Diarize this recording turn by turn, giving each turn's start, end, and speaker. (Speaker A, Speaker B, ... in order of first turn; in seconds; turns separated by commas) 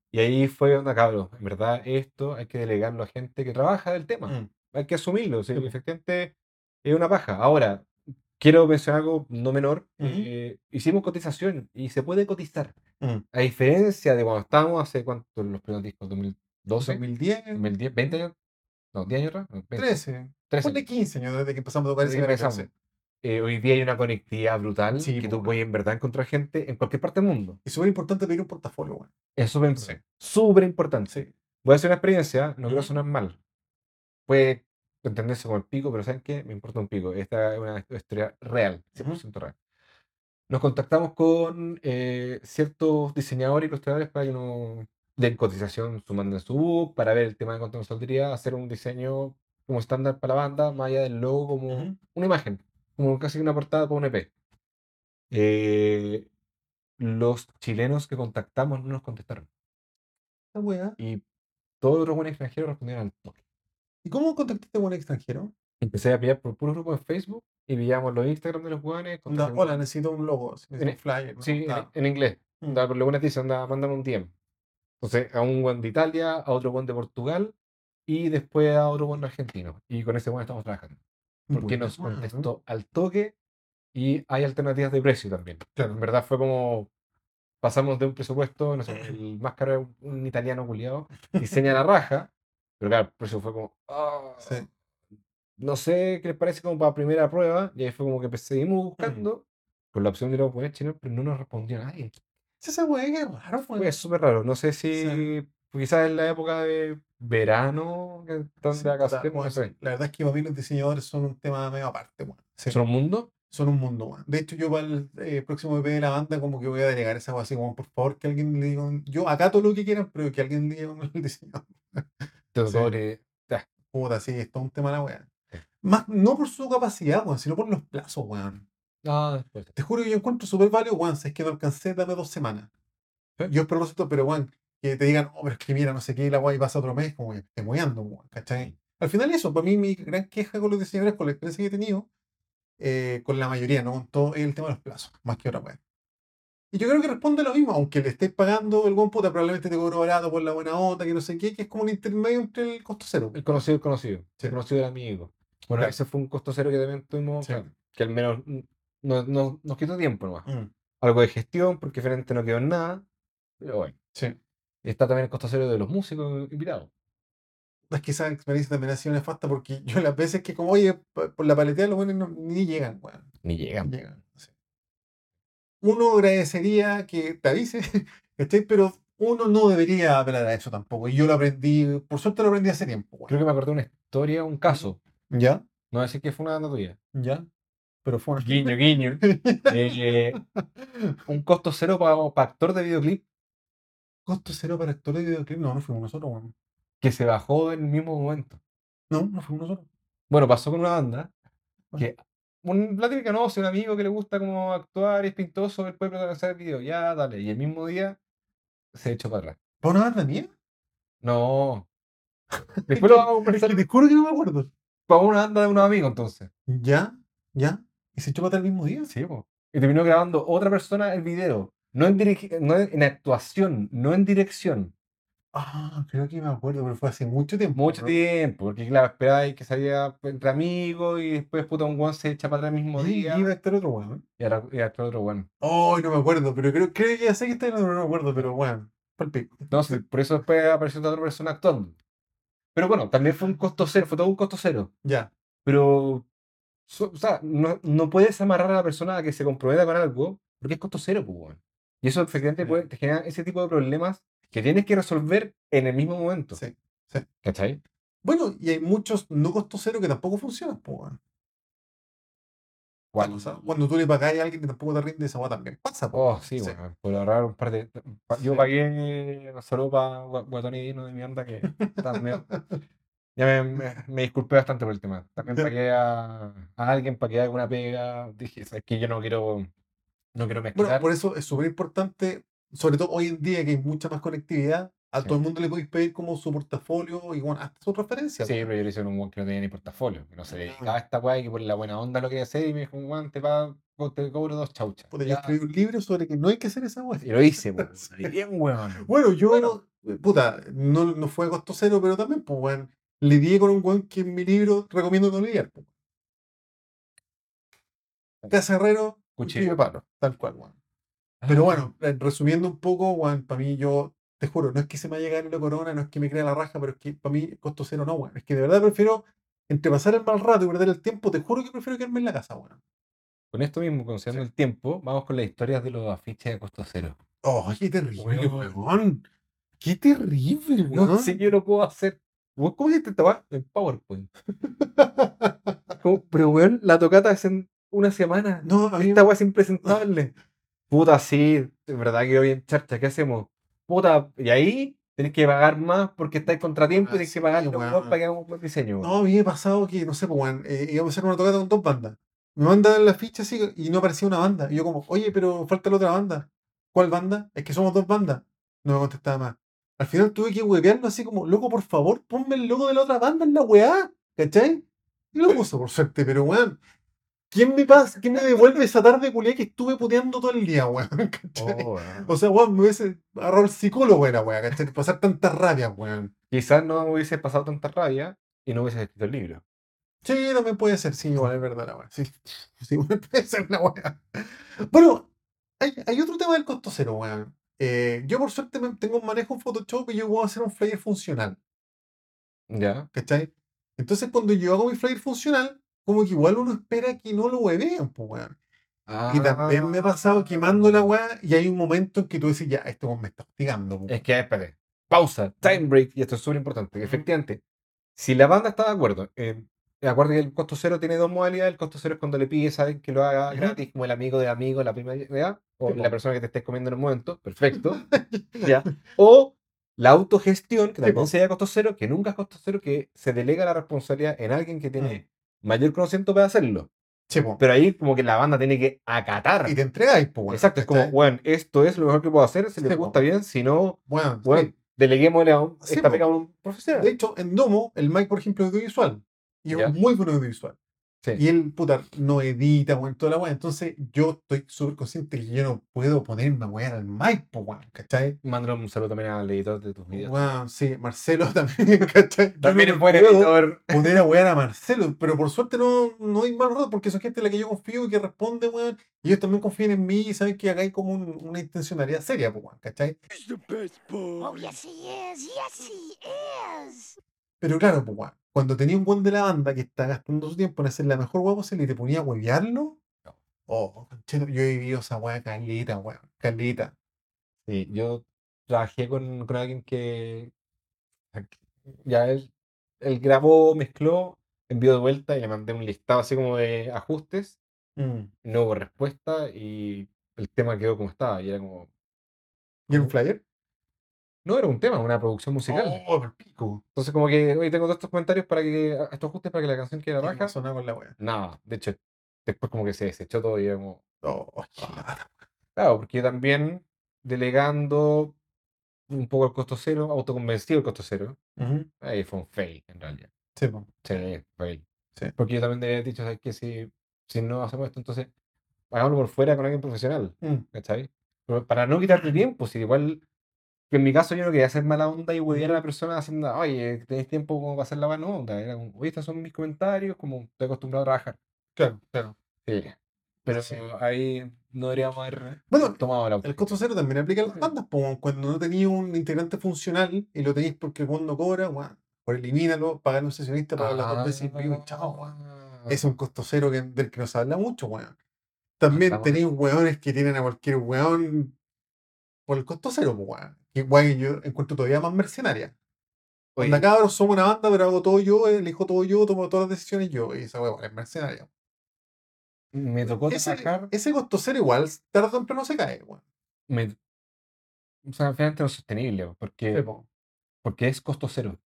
Speaker A: 0.1-12.8, Speaker B: 10.0-10.3, Speaker A: 13.3-17.0, Speaker B: 16.8-18.1, Speaker A: 17.5-18.3, Speaker A: 18.9-20.8, Speaker B: 19.8-22.7, Speaker A: 22.0-22.7, Speaker A: 23.2-27.6, Speaker B: 24.9-25.5, Speaker B: 27.6-29.1, Speaker A: 29.4-33.4, Speaker A: 34.3-39.5, Speaker A: 40.5-54.3, Speaker A: 55.3-56.3, Speaker A: 57.0-59.5, Speaker B: 60.5-61.0, Speaker A: 61.8-63.4, Speaker B: 64.0-65.5, Speaker A: 65.8-69.8, Speaker B: 69.3-71.9, Speaker A: 70.8-74.3, Speaker A: 75.0-77.5, Speaker A: 78.1-81.0, Speaker B: 81.5-82.5, Speaker A: 81.5-83.3, Speaker A: 83.9-86.9, Speaker A: 87.6-94.6, Speaker A: 95.6-102.1, Speaker B: 99.0-99.2, Speaker B: 102.6-104.0, Speaker A: 103.8-109.7, Speaker B: 104.9-105.3, Speaker B: 108.7-112.8, Speaker A: 112.7-113.3, Speaker B: 113.5-122.1, Speaker A: 122.5-123.7, Speaker B: 122.7-122.9, Speaker B: 123.9-125.3, Speaker B: 125.8-128.6, Speaker A: 129.0-129.8, Speaker B: 129.8-132.7, Speaker B: 133.5-142.1, Speaker B: 142.8-145.8, Speaker B: 146.7-153.7, Speaker A: 153.3-160.5, Speaker A: 161.0-163.1, Speaker A: 163.6-163.9, Speaker A: 164.8-166.9, Speaker B: 167.9-173.3, Speaker A: 173.4-173.9, Speaker B: 173.8-174.5, Speaker B: 175.8-183.3, Speaker A: 183.3-185.0, Speaker B: 184.7-185.6, Speaker A: 185.9-187.0, Speaker B: 187.1-187.5, Speaker B: 188.1-191.2, Speaker A: 188.4-190.4, Speaker A: 191.3-193.2, Speaker B: 194.3-196.5, Speaker A: 197.0-198.6, Speaker B: 199.1-199.9, Speaker A: 200.3-201.3, Speaker A: 202.0-208.2, Speaker A: 208.9-209.6, Speaker B: 209.8-210.5, Speaker A: 211.2-211.9, Speaker B: 212.8-214.7, Speaker A: 212.9-213.8, Speaker A: 215.1-216.5, Speaker B: 216.7-219.1, Speaker A: 219.1-224.9, Speaker B: 225.5-228.2, Speaker A: 227.8-233.5, Speaker B: 233.0-234.2, Speaker A: 234.4-235.5, Speaker B: 235.6-240.0, Speaker A: 239.7-242.0, Speaker A: 242.7-244.9, Speaker B: 245.0-245.3, Speaker A: 245.7-246.3, Speaker A: 246.9-256.6, Speaker B: 256.6-257.2, Speaker A: 257.4-257.8, Speaker B: 258.2-261.2, Speaker A: 263.1-263.5, Speaker B: 263.2-266.8, Speaker A: 266.1-272.5, Speaker B: 268.3-268.7, Speaker B: 271.9-272.6, Speaker A: 273.4-279.7, Speaker A: 280.4-281.1, Speaker B: 280.8-288.7, Speaker A: 288.4-295.6, Speaker B: 290.5-291.0, Speaker B: 295.1-298.3, Speaker A: 297.2-299.8, Speaker B: 299.0-305.9, Speaker B: 308.5-310.7, Speaker A: 309.4-309.7, Speaker A: 311.4-311.9, Speaker B: 311.5-322.8, Speaker A: 323.5-327.2, Speaker B: 327.4-329.2, Speaker A: 328.2-328.8, Speaker B: 329.8-331.4, Speaker A: 330.9-334.3, Speaker B: 334.6-335.7, Speaker A: 336.0-340.3, Speaker B: 338.6-339.3, Speaker A: 340.9-349.1, Speaker B: 346.9-348.2, Speaker B: 349.0-366.8, Speaker B: 367.5-376.3, Speaker A: 371.6-372.3, Speaker A: 376.5-379.6, Speaker B: 380.2-385.3, Speaker B: 385.8-391.6, Speaker A: 392.7-393.1, Speaker B: 393.1-398.6, Speaker A: 399.1-401.1, Speaker B: 399.3-404.2, Speaker A: 404.1-407.6, Speaker A: 408.2-418.0, Speaker B: 413.5-413.8, Speaker B: 415.9-416.1, Speaker B: 417.8-418.8, Speaker A: 418.6-426.9, Speaker B: 421.0-421.3, Speaker B: 427.3-427.6, Speaker A: 427.6-429.8, Speaker B: 429.6-431.1, Speaker A: 430.5-437.1, Speaker B: 432.8-433.2, Speaker B: 434.1-434.7, Speaker B: 435.8-436.2, Speaker B: 437.0-440.8, Speaker A: 439.7-440.0, Speaker B: 441.4-448.4, Speaker A: 448.4-450.4, Speaker B: 450.1-463.2, Speaker A: 452.6-454.1, Speaker C: 464.3-467.2, Speaker B: 467.6-473.0, Speaker B: 473.7-476.9, Speaker A: 477.7-480.5, Speaker A: 481.3-482.5, Speaker A: 483.0-487.6, Speaker B: 488.0-488.3, Speaker A: 488.4-491.9, Speaker B: 492.9-493.4, Speaker A: 494.4-496.0, Speaker B: 495.7-496.8, Speaker A: 496.9-500.5, Speaker B: 500.2-501.1, Speaker A: 501.2-504.0, Speaker B: 504.2-505.3, Speaker A: 505.8-508.4, Speaker A: 509.1-511.4, Speaker B: 511.6-511.9, Speaker A: 512.0-513.3, Speaker B: 513.6-513.9, Speaker A: 514.0-514.8, Speaker A: 515.4-518.3, Speaker A: 518.9-523.2, Speaker A: 523.9-531.4, Speaker B: 525.5-525.8, Speaker B: 531.8-532.4, Speaker A: 532.7-532.9, Speaker A: 533.5-536.8, Speaker B: 533.5-533.8, Speaker B: 535.7-545.3, Speaker A: 543.8-546.0, Speaker B: 545.9-548.1, Speaker B: 548.8-551.5, Speaker A: 548.9-549.4, Speaker B: 552.5-555.7, Speaker A: 556.6-556.9, Speaker B: 556.6-561.5, Speaker A: 562.7-563.9, Speaker B: 563.2-566.2, Speaker A: 566.7-567.0, Speaker A: 568.0-569.8, Speaker B: 569.7-570.1, Speaker A: 570.6-571.6